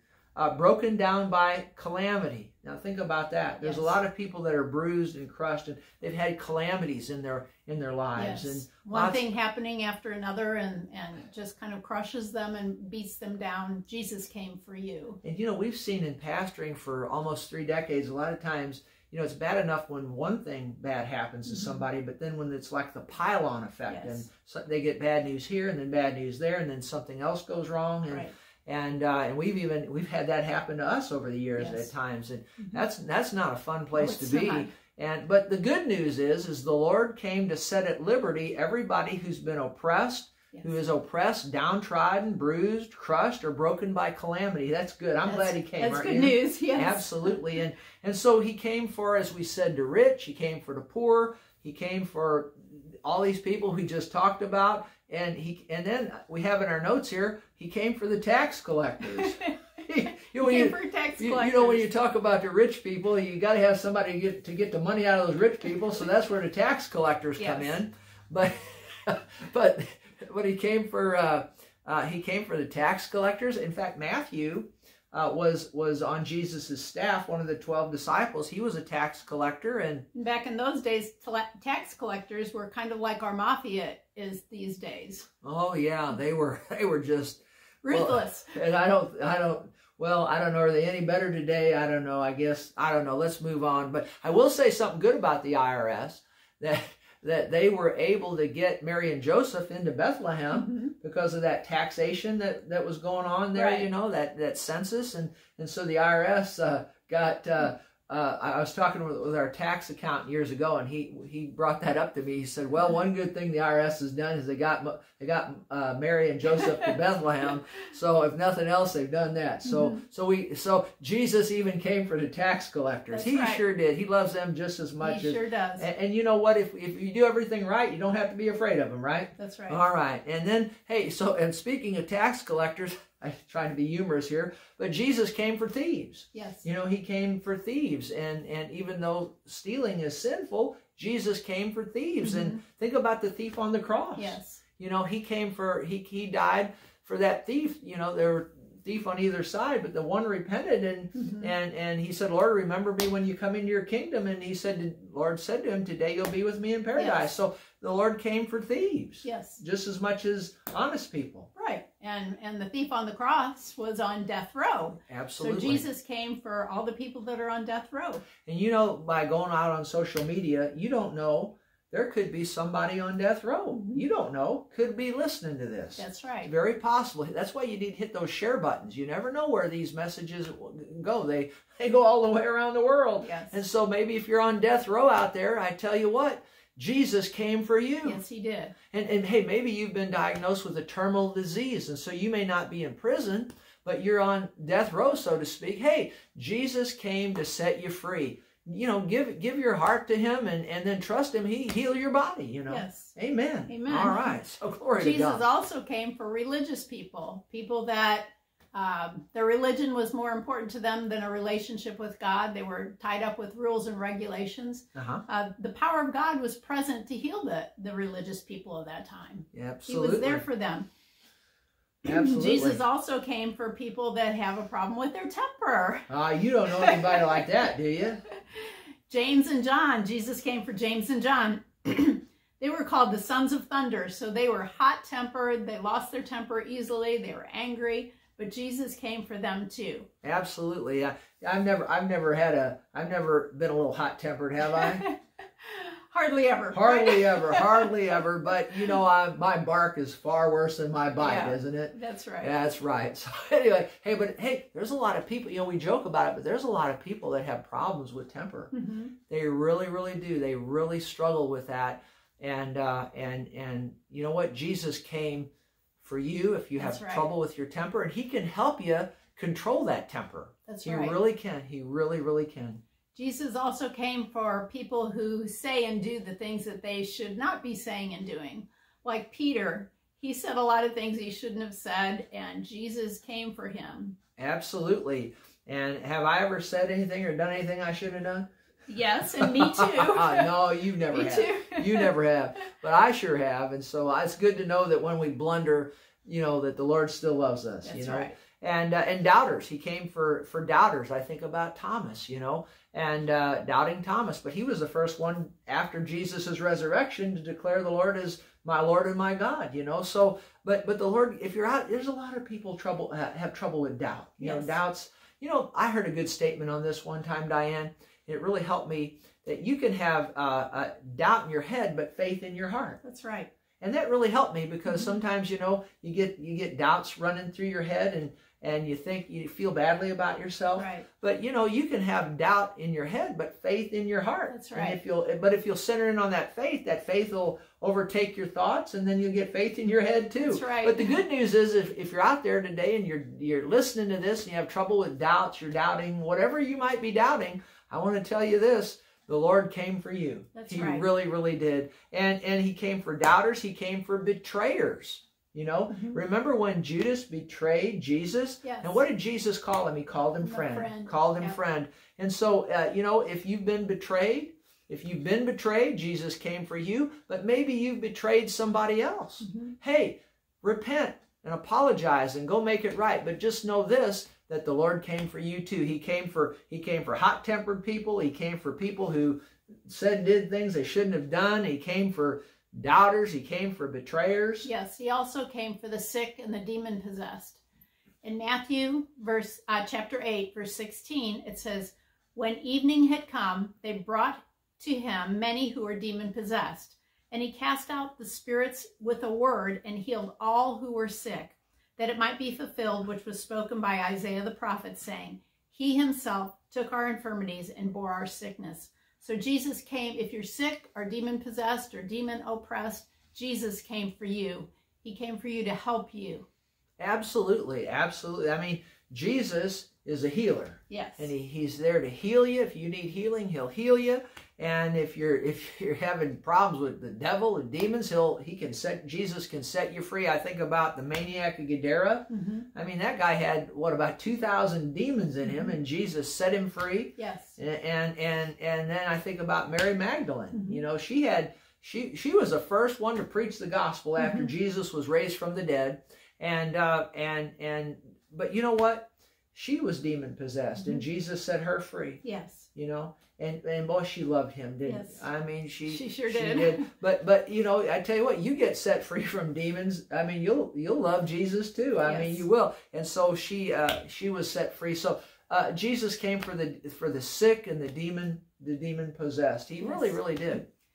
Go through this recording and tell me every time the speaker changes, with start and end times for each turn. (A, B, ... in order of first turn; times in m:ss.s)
0:00.4-0:09.2 A
0:03.6-0:04.0 B
0:08.2-0:15.2 B
0:15.2-1:20.1 A
0:21.5-0:21.8 B
0:23.9-0:24.2 B
0:28.1-0:28.3 B
0:31.6-0:31.9 B
0:33.9-0:34.7 B
0:45.2-0:47.4 B
0:59.2-0:59.5 B
1:00.4-1:01.8 B
1:07.4-1:07.8 B
1:20.1-1:25.3 B
1:25.4-2:41.5 A
1:27.8-1:28.6 B
1:40.5-1:40.9 B
1:43.5-1:43.9 B
1:56.5-1:56.9 B
1:59.6-2:00.0 B
2:03.1-2:03.6 B
2:05.0-2:05.9 B
2:09.4-2:09.8 B
2:16.3-2:16.6 B
2:22.2-2:22.6 B
2:24.2-2:24.6 B
2:31.2-2:31.5 B
2:37.0-2:37.3 B
2:39.2-2:39.6 B
2:41.6-2:48.2 B
2:45.1-2:45.8 A
2:48.4-3:08.2 A
2:53.7-2:54.0 B
2:56.0-2:56.5 B
3:03.2-3:03.6 B
3:08.0-3:08.7 B
3:08.9-3:25.4 A
3:22.7-3:23.1 B
3:23.7-3:24.4 B
3:25.0-3:40.9 B
3:35.0-3:35.2 A
3:39.5-3:40.4 A
3:42.0-3:42.8 A
3:42.0-3:46.1 B
3:46.1-3:48.2 A
3:46.7-3:47.4 B
3:48.5-4:00.1 B
4:00.2-4:05.0 A
4:04.8-4:07.9 B
4:06.7-4:25.5 A
4:11.2-4:12.6 B
4:18.7-4:19.1 B
4:26.0-4:32.8 A
4:26.8-4:27.3 B
4:30.7-4:31.2 B
4:33.1-4:44.2 B
4:44.4-4:48.5 A
4:48.9-4:50.5 B
4:49.4-5:23.0 A
4:51.1-4:52.1 B
4:57.8-4:58.4 B
5:14.4-5:14.8 B
5:23.0-5:23.5 B
5:23.8-6:24.7 A
5:24.9-5:25.2 B
5:30.8-5:31.1 B
5:34.5-5:35.0 B
5:40.4-5:41.2 B
5:50.5-5:51.1 B
5:55.9-5:56.2 B
5:58.6-5:59.0 B
6:00.4-6:01.6 B
6:09.4-6:09.7 B
6:24.6-6:27.6 B
6:28.2-6:56.5 B
6:57.0-7:32.2 A
7:00.9-7:01.3 B
7:12.3-7:12.7 B
7:15.4-7:15.7 B
7:17.2-7:17.6 B
7:20.5-7:20.8 B
7:24.2-7:24.5 B
7:32.2-7:32.7 B
7:32.8-7:50.7 A
7:34.8-7:35.2 B
7:35.9-7:36.9 B
7:42.0-7:42.4 B
7:49.8-7:50.2 B